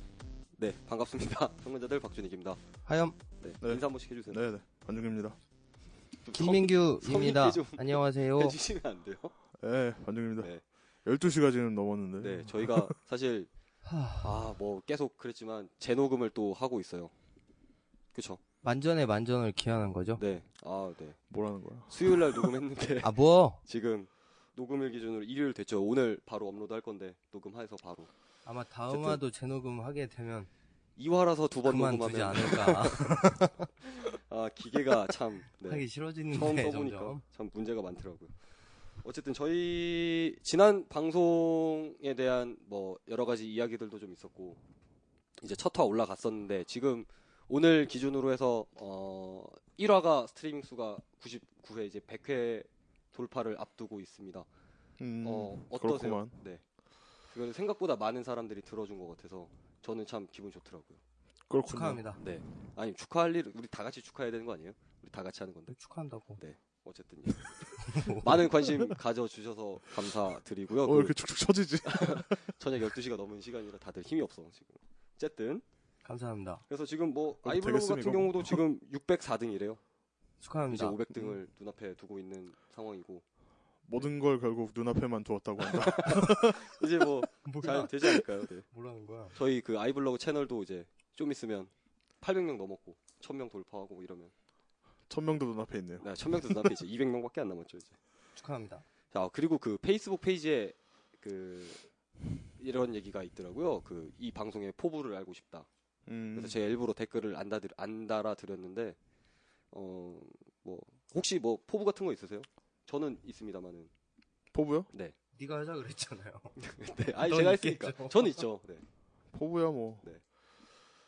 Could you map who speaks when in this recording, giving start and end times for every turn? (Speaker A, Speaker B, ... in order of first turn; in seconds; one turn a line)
Speaker A: 0.6-2.6
Speaker B: 2.9-3.2
Speaker A: 3.4-4.4
Speaker C: 3.6-5.4
Speaker A: 6.2-9.3
Speaker B: 6.3-8.6
Speaker C: 9.6-10.5
Speaker C: 11.1-12.9
Speaker A: 12.2-13.5
Speaker B: 13.8-14.4
Speaker A: 14.2-17.1
Speaker A: 18.1-18.4
Speaker B: 18.6-20.2
Speaker A: 20.2-21.2
Speaker C: 21.3-22.6
Speaker A: 21.9-28.1
Speaker B: 23.0-23.6
Speaker B: 28.5-30.5
Speaker A: 31.0-33.2
Speaker B: 31.7-33.7
Speaker A: 33.8-38.3
Speaker B: 35.6-37.2
Speaker A: 39.0-44.6
Speaker A: 45.4-54.5
Speaker C: 55.0-56.4
Speaker A: 55.2-56.6
Speaker A: 57.3-61.0
Speaker C: 61.5-62.0
Speaker B: 61.7-62.2
Speaker A: 62.2-65.8
Speaker B: 65.7-66.4
Speaker A: 66.4-71.2
Speaker B: 67.8-68.4
Speaker C: 68.7-68.9
Speaker C: 70.8-72.5
Speaker A: 71.8-75.6
Speaker B: 76.0-76.6
Speaker A: 76.7-79.8
Speaker C: 77.4-78.6
Speaker B: 80.4-81.0
Speaker A: 80.7-83.2
Speaker C: 81.1-81.4
Speaker C: 83.8-86.8
Speaker A: 85.6-88.7
Speaker B: 87.5-88.1
Speaker B: 88.7-89.4
Speaker A: 89.3-94.3
Speaker C: 95.1-96.8
Speaker A: 96.0-98.0
Speaker B: 98.4-98.8
Speaker A: 99.1-101.9
Speaker A: 102.6-105.7
Speaker C: 106.1-106.6
Speaker A: 106.3-109.0
Speaker A: 109.7-113.9
Speaker C: 114.5-114.9
Speaker B: 115.3-116.6
Speaker A: 116.6-118.8
Speaker B: 117.2-118.4
Speaker C: 119.3-120.1